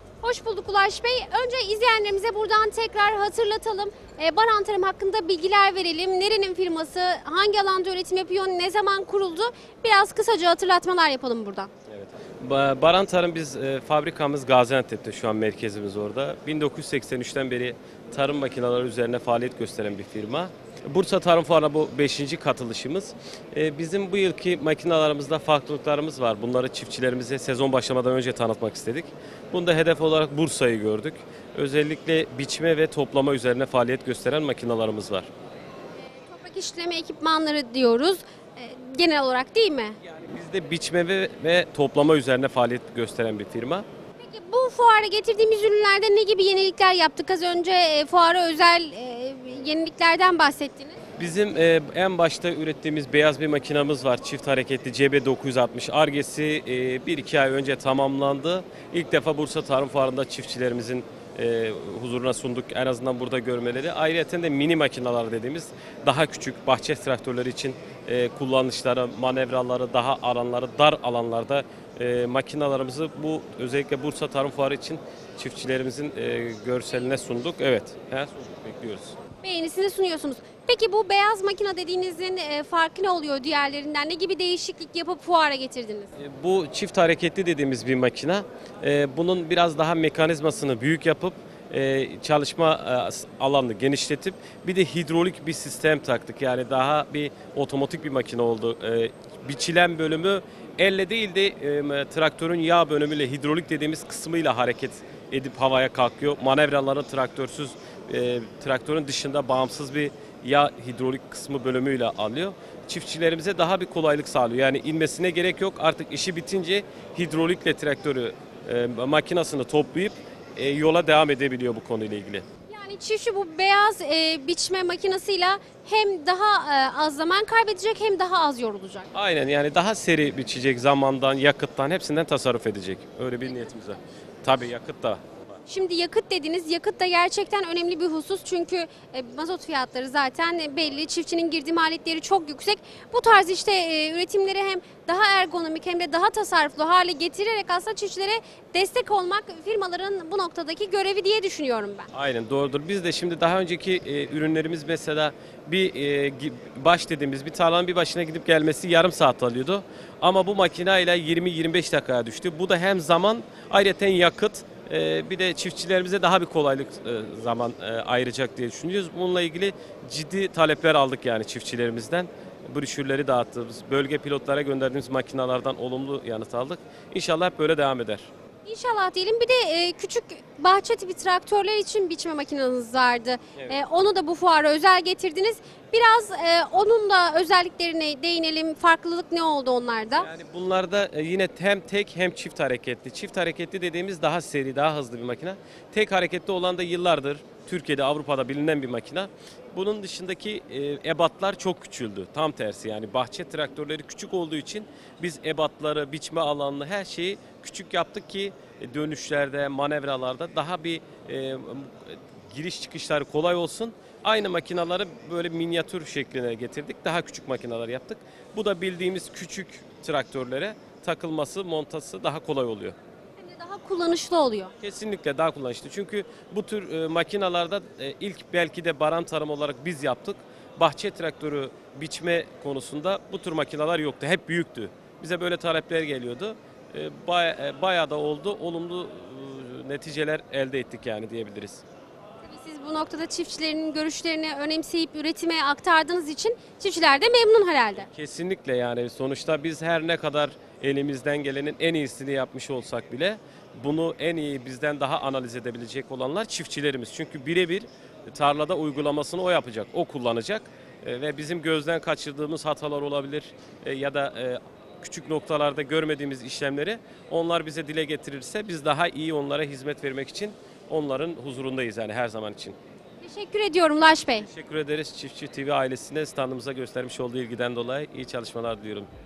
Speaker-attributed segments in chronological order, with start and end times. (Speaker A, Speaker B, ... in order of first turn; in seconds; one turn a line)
Speaker A: 0.2-11.7
Speaker B: 11.9-35.3
Speaker A: 36.1-40.0
Speaker B: 40.0-43.8
Speaker A: 44.2-51.0
Speaker B: 51.2-79.2
Speaker A: 79.4-86.1
Speaker B: 86.2-122.4
Speaker A: 122.7-129.1
Speaker B: 129.1-135.6
Speaker A: 135.7-152.1
Speaker B: 152.1-178.3
Speaker A: 178.7-190.2
Speaker B: 190.2-222.9
Speaker A: 223.4-224.7
Speaker B: 224.8-241.8
Speaker A: 242.4-248.1
Speaker B: 248.0-272.8
Speaker A: 273.2-274.4
Speaker B: 274.4-279.1